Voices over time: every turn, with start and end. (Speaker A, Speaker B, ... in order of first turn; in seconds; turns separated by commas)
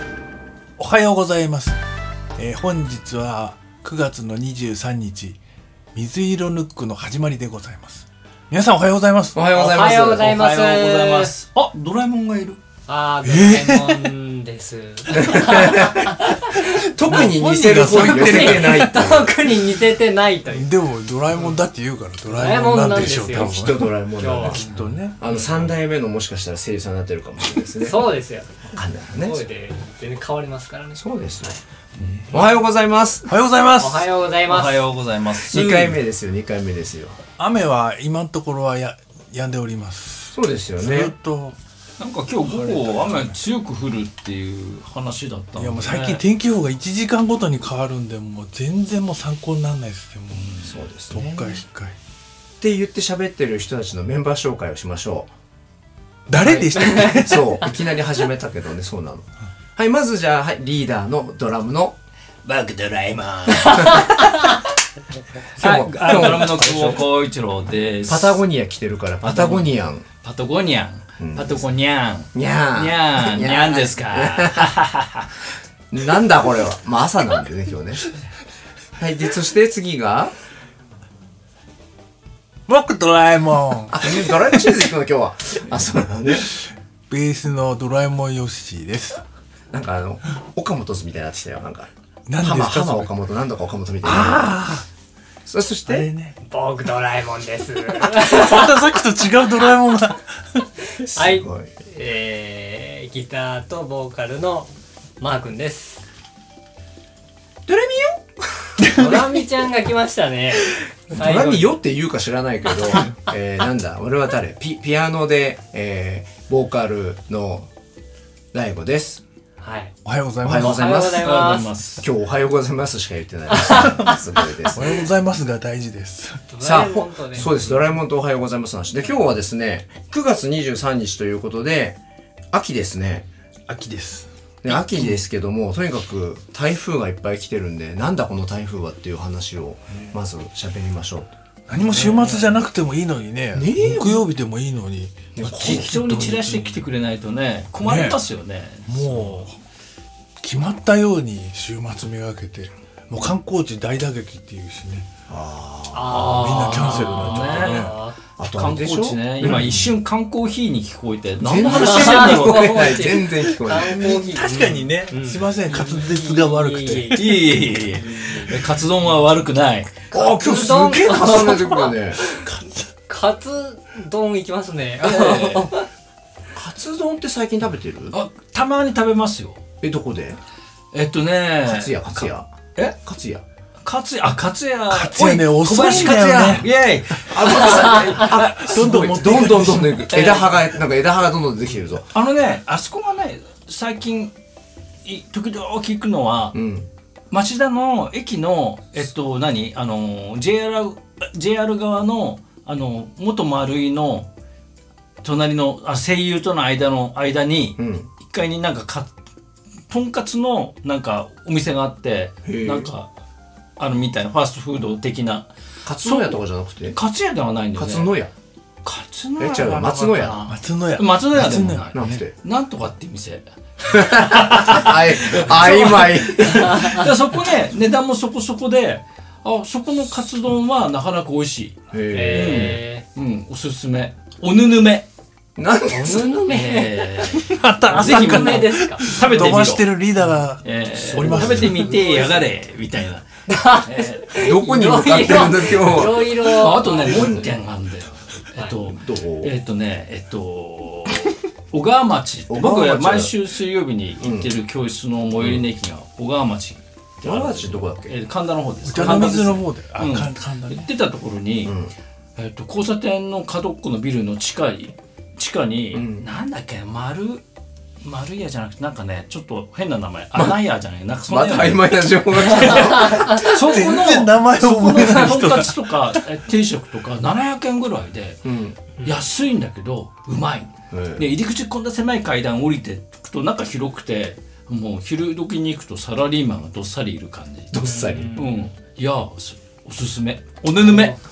Speaker A: 0.8-1.8, Speaker A: 2.4-5.4, Speaker A: 5.9-9.4, Speaker B: 9.3-10.4, Speaker C: 9.5-11.3, Speaker D: 10.2-12.6, Speaker C: 12.9-16.5, Speaker A: 13.2-14.1, Speaker B: 15.2-19.3, Speaker A: 17.0-19.2, Speaker C: 17.8-20.7, Speaker A: 20.5-23.9, Speaker C: 22.3-24.8, Speaker B: 23.1-28.1, Speaker A: 24.4-25.1, Speaker D: 25.2-25.7, Speaker C: 27.8-31.0, Speaker B: 28.7-29.4, Speaker B: 31.0-31.6, Speaker D: 32.0-32.3, Speaker B: 32.3-33.3, Speaker A: 33.3-34.1, Speaker C: 33.8-34.8, Speaker D: 34.5-36.0, Speaker B: 35.4-37.2, Speaker A: 37.4-41.5, Speaker B: 40.3-41.1, Speaker D: 42.0-46.2, Speaker A: 42.6-43.3, Speaker A: 45.5-50.6, Speaker D: 50.3-50.7, Speaker B: 50.6-51.6, Speaker A: 51.1-52.0, Speaker B: 52.6-55.3, Speaker A: 56.3-57.6, Speaker B: 56.3-62.0, Speaker C: 57.0-57.2, Speaker D: 62.4-64.3, Speaker C: 63.6-64.5, Speaker B: 65.6-67.0, Speaker D: 65.6-68.4, Speaker B: 68.0-70.0, Speaker D: 69.3-69.7, Speaker D: 70.2-75.3, Speaker B: 71.2-71.6, Speaker B: 72.3-74.7, Speaker B: 75.9-78.1, Speaker B: 79.0-80.3, Speaker A: 82.7-84.7, Speaker B: 83.9-86.5, Speaker A: 87.1-89.2, Speaker B: 89.7-94.6, Speaker A: 92.3-93.1, Speaker A: 94.0-94.8, Speaker B: 95.5-96.1, Speaker A: 95.9-96.3, Speaker C: 96.4-98.8, Speaker A: 98.1-100.6, Speaker C: 101.0-106.1, Speaker B: 101.0-101.7, Speaker B: 107.7-108.7, Speaker A: 108.8-109.2, Speaker C: 108.8-111.7, Speaker B: 111.1-117.7, Speaker B: 118.5-119.2, Speaker C: 119.6-119.9, Speaker A: 120.0-121.0, Speaker B: 120.4-125.0, Speaker C: 120.5-121.7, Speaker D: 121.2-122.0, Speaker C: 123.7-124.0, Speaker A: 124.7-126.5, Speaker C: 126.5-127.5, Speaker B: 126.6-132.0, Speaker B: 132.5-133.3, Speaker A: 133.7-135.2, Speaker B: 134.6-141.3, Speaker A: 141.7-146.8, Speaker B: 141.9-142.4, Speaker B: 143.5-144.3, Speaker B: 145.3-145.9, Speaker D: 145.4-149.4, Speaker A: 147.8-148.2, Speaker A: 148.8-149.6, Speaker A: 150.4-155.1, Speaker B: 155.3-156.3, Speaker C: 155.9-158.2, Speaker D: 156.1-162.9, Speaker A: 156.3-157.9, Speaker B: 158.4-159.7, Speaker A: 159.4-159.9, Speaker B: 161.4-164.2, Speaker C: 161.6-168.7, Speaker A: 163.8-167.4, Speaker D: 167.1-170.1, Speaker B: 170.1-172.2, Speaker C: 170.1-172.4, Speaker A: 172.3-172.9, Speaker C: 173.1-175.9, Speaker B: 175.0-175.7, Speaker B: 176.5-178.2, Speaker D: 178.1-179.6, Speaker B: 179.8-180.4, Speaker D: 180.9-182.9, Speaker B: 181.6-182.5, Speaker B: 183.0-183.4, Speaker D: 183.8-188.4, Speaker A: 184.9-186.7, Speaker B: 187.3-192.1, Speaker A: 188.1-190.1, Speaker D: 190.1-190.6, Speaker D: 192.1-194.3, Speaker D: 195.0-196.6, Speaker B: 196.5-196.9, Speaker D: 197.3-204.3, Speaker D: 205.2-209.1, Speaker B: 207.8-208.1, Speaker D: 209.9-213.1, Speaker B: 212.4-212.9, Speaker D: 213.8-215.5, Speaker B: 215.8-217.0, Speaker D: 216.0-218.1, Speaker B: 217.8-218.3, Speaker D: 218.8-231.8, Speaker B: 219.4-220.4, Speaker A: 220.5-222.2, Speaker B: 221.5-222.3, Speaker B: 223.8-226.9, Speaker C: 226.5-227.1, Speaker B: 231.9-232.8, Speaker C: 232.1-233.0, Speaker D: 232.3-235.1, Speaker B: 235.6-236.7, Speaker C: 235.9-237.2, Speaker D: 236.5-239.9, Speaker A: 237.3-242.0, Speaker C: 237.9-239.1, Speaker D: 240.6-244.4, Speaker B: 241.2-242.2, Speaker C: 243.5-247.5, Speaker B: 244.3-247.5, Speaker D: 246.3-261.7, Speaker B: 248.8-249.5, Speaker B: 252.5-253.3, Speaker B: 254.2-254.5, Speaker B: 255.4-255.6, Speaker B: 257.2-258.2, Speaker A: 258.8-260.9, Speaker B: 261.6-261.9, Speaker D: 262.4-267.4, Speaker B: 265.9-266.2, Speaker D: 268.0-278.4, Speaker B: 271.3-273.8, Speaker C: 273.1-273.4, Speaker A: 273.4-276.2, Speaker B: 278.4-278.8, Speaker D: 279.0-287.8, Speaker B: 280.9-281.2, Speaker B: 287.7-288.4, Speaker C: 287.8-288.5, Speaker D: 288.3-291.1, Speaker C: 290.8-291.2